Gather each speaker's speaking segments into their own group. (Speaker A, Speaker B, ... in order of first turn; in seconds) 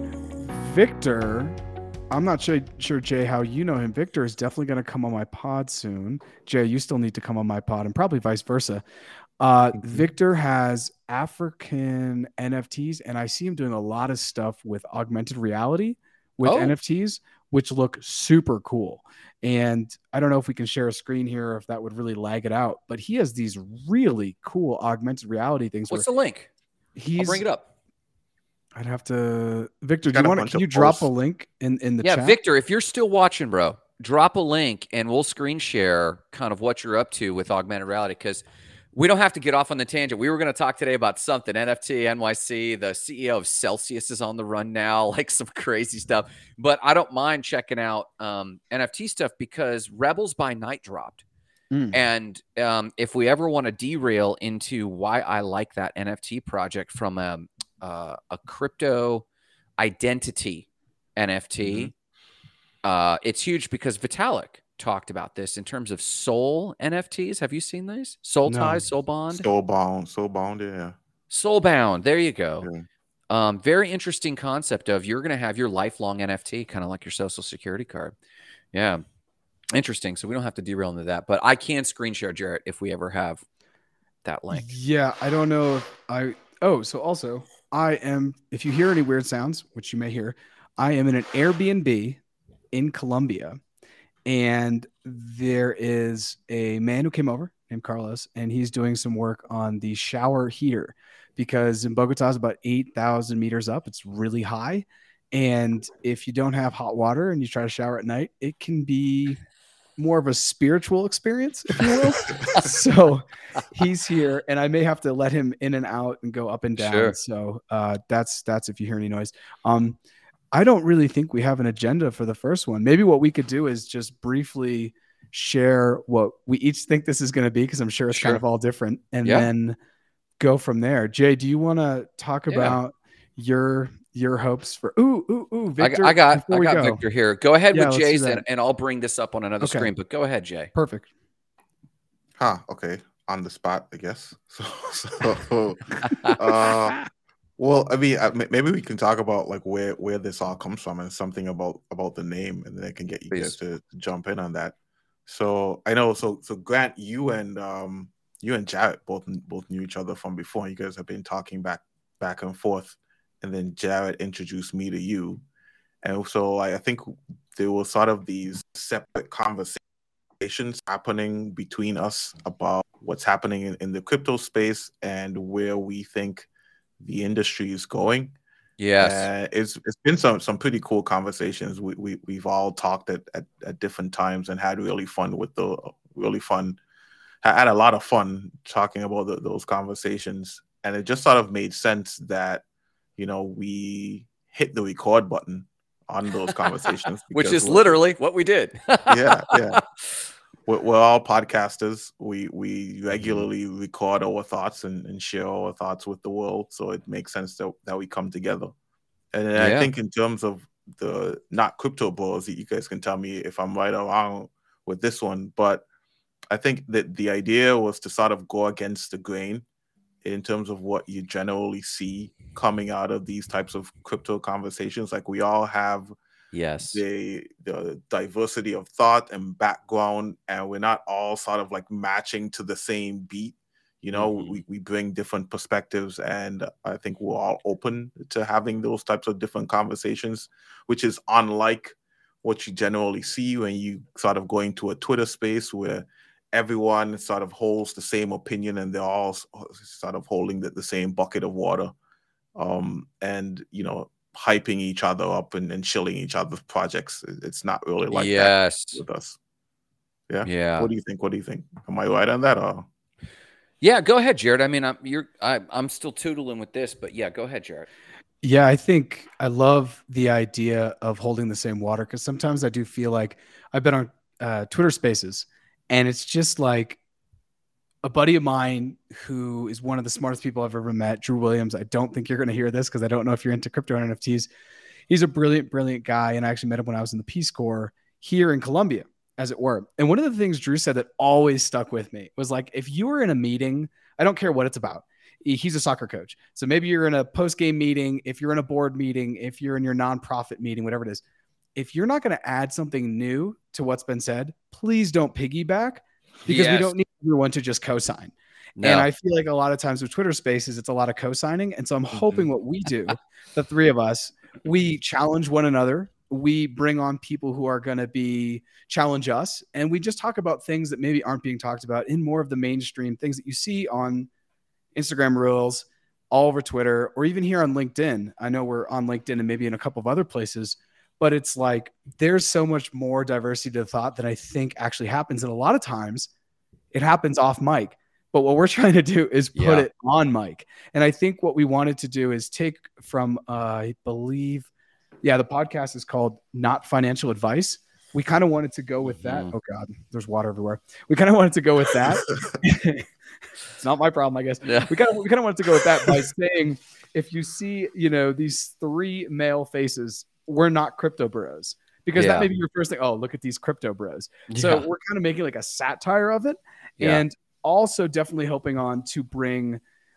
Speaker A: 0.5-1.6, 2.1-8.8, 9.4-26.1, 27.0-27.4, 28.8-32.4, 51.7-52.0, 68.5-68.8, 84.5-92.2, 92.7-93.6, 94.3-109.4, 110.0-120.0, 120.5-129.8, 130.4-137.0, 137.7-138.4, 139.6-139.9, 140.8-141.1, 268.4-277.0, 278.0-284.5, 285.1-301.2, 301.8-324.3, 324.9-336.3, 336.9-344.7, 345.2-353.1, 353.8-369.8
Speaker B: 9.8-10.1, 16.4-16.8, 25.9-26.5, 27.2-27.7, 32.0-51.2, 51.9-59.2, 59.8-61.9, 62.8-69.5, 71.3-72.7, 73.3-78.2, 78.7-79.0, 79.7-83.4, 84.2-84.7, 116.8-117.2, 128.1-128.4, 129.2-129.5, 132.5-132.8, 135.8-140.7, 146.0-146.4, 178.8-179.3, 197.3-200.1, 209.6-209.9, 226.5-227.0, 234.1-234.6, 258.1-259.0, 260.4-260.9, 263.8-267.9, 306.5-306.9, 308.8-309.1, 312.1-312.4, 339.5-339.9, 349.1-349.5, 354.6-354.9, 362.1-362.5, 364.5-364.9
Speaker C: 30.1-31.1, 69.3-71.0, 142.4-147.1, 147.6-154.8, 155.3-165.4, 166.0-169.8, 170.4-176.5, 177.0-178.4, 179.0-186.8, 187.4-192.6, 193.2-198.0, 199.1-199.8, 200.7-208.7, 209.3-215.9, 216.5-219.6, 220.2-226.1, 226.9-251.9, 252.6-259.4, 260.3-262.9